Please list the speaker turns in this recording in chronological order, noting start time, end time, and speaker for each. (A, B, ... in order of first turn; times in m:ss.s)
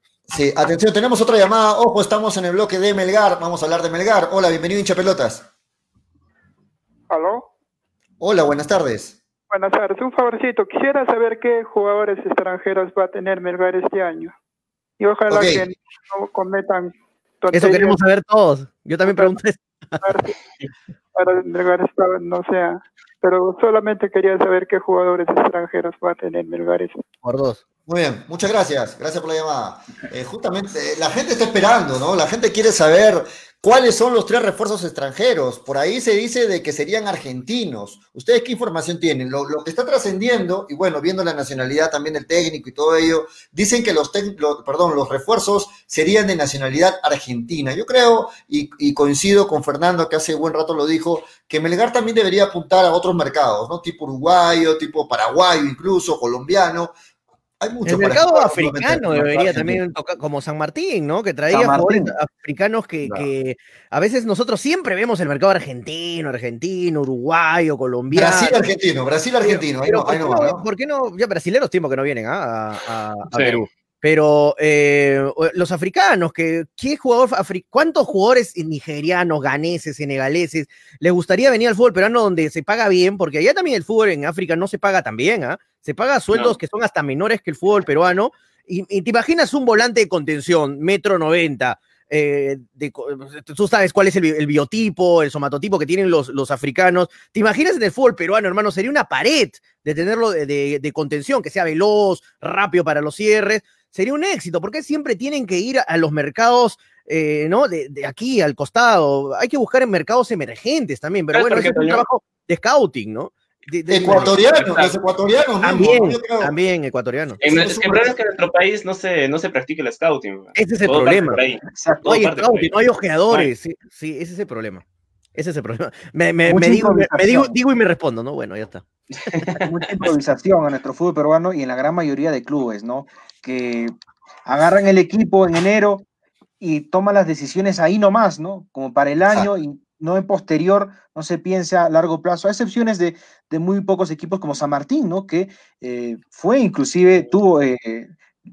0:00.3-0:05.5 A
0:07.1-0:07.5 B
0:08.2-0:09.2 A
0:09.5-0:14.3 B
0:15.0-0:18.0 B
0:15.3-0:15.7 A
0:17.5-0:20.0 C
0:19.1-0:19.4 B
0:20.0-0:20.3 B
0:21.2-0:27.0 B
0:27.2-0:27.6 C
0:27.9-0:56.9 A
0:57.6-0:59.8 A
0:57.9-1:08.6 C
1:01.5-1:02.1 D
1:08.1-1:10.6 A
1:09.5-1:54.4 C
1:13.3-1:13.6 E
1:26.3-1:26.6 E
1:51.3-1:52.0 E
1:53.9-1:56.5 A
1:54.6-1:55.0 E
1:55.6-1:57.4 C
1:57.4-1:58.2 A
1:57.4-2:02.7 E
2:00.6-2:01.4 C
2:01.8-2:02.1 D
2:02.1-2:04.8 C
2:05.4-2:08.8 C
2:06.5-2:07.6 D
2:09.3-2:14.0 D
2:14.5-2:16.0 D
2:16.6-2:28.1 D